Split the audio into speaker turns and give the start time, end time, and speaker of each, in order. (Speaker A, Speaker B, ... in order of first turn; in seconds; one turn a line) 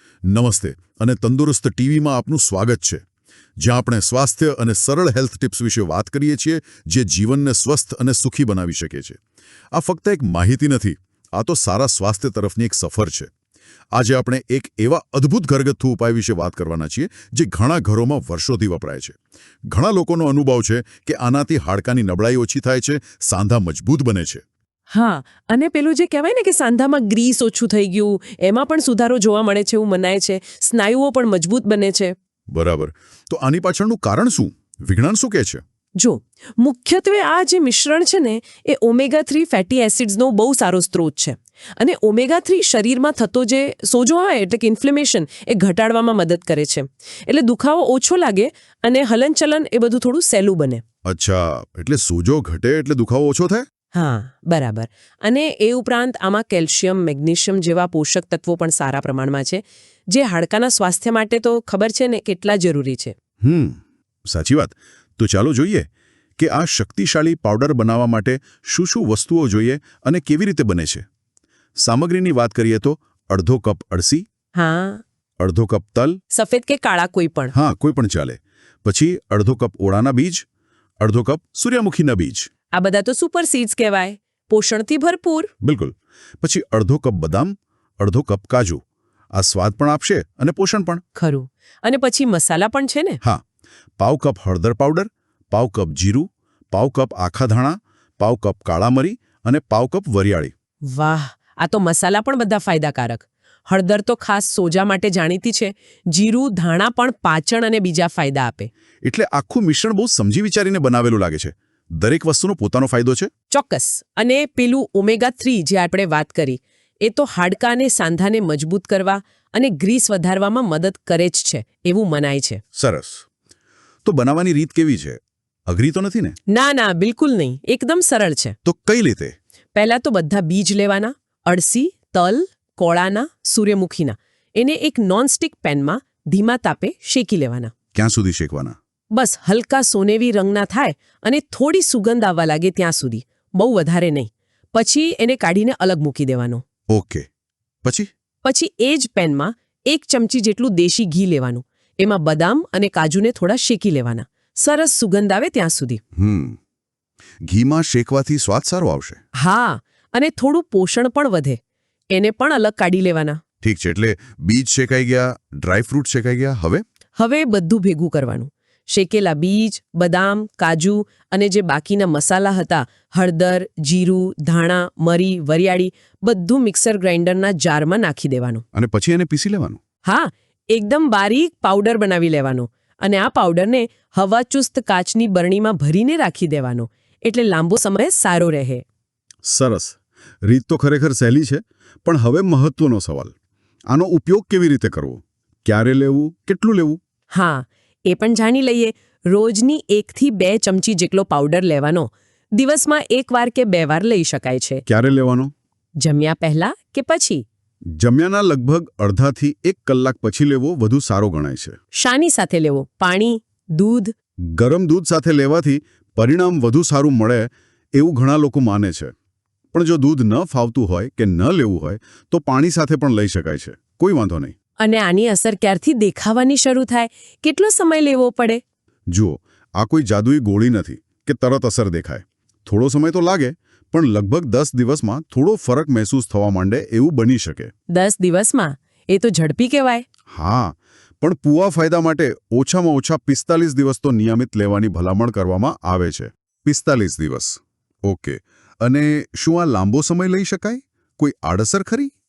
Speaker A: 0.3-3.0
Speaker A: 3.6-9.2
Speaker A: 9.7-13.3
Speaker A: 13.9-24.4
Speaker B: 24.9-32.1
Speaker A: 32.5-35.6
Speaker B: 36.0-50.8
Speaker A: 51.0-53.7
Speaker B: 53.9-63.1
Speaker A: 63.4-71.0
Speaker A: 71.8-74.3
Speaker B: 74.5-75.0
Speaker A: 75.4-76.2
Speaker B: 76.3-77.5
Speaker A: 77.5-80.5
Speaker A: 81.0-82.5
Speaker B: 82.7-85.5
Speaker A: 85.6-88.8
Speaker A: 89.3-91.0
Speaker B: 91.2-93.2
Speaker A: 94.0-100.5
Speaker B: 100.9-108.7
Speaker A: 109.0-113.3
Speaker B: 113.5-122.6
Speaker A: 122.8-123.2
Speaker A: 124.0-126.4
Speaker B: 126.5-128.6
Speaker A: 128.6-129.3
Speaker B: 129.8-137.7
Speaker A: 137.9-138.8
Speaker B: 139.1-146.6
Speaker A: 146.9-147.3
Speaker A: 147.8-148.1
Speaker B: 148.4-156.0
Speaker A: 156.2-156.6
Speaker A: 157.5-159.2
Speaker B: 159.4-161.6
Speaker B: 162.1-163.4
Speaker A: 163.6-166.8
Speaker B: 167.2-178.6
Speaker A: 178.7-179.8
Speaker B: 180.1-188.8
Speaker A: 189.4-193.3
Speaker A: 193.9-197.0
Speaker B: 197.3-204.8
Speaker A: 204.9-205.5
Speaker B: 206.0-207.4
Speaker A: 208.0-211.8
Speaker B: 211.9-214.1
Speaker A: 214.6-219.1
Speaker A: 219.7-224.5
Speaker B: 224.8-228.6
Speaker A: 229.1-237.7
Speaker B: 237.9-240.1
Speaker A: 240.3-252.1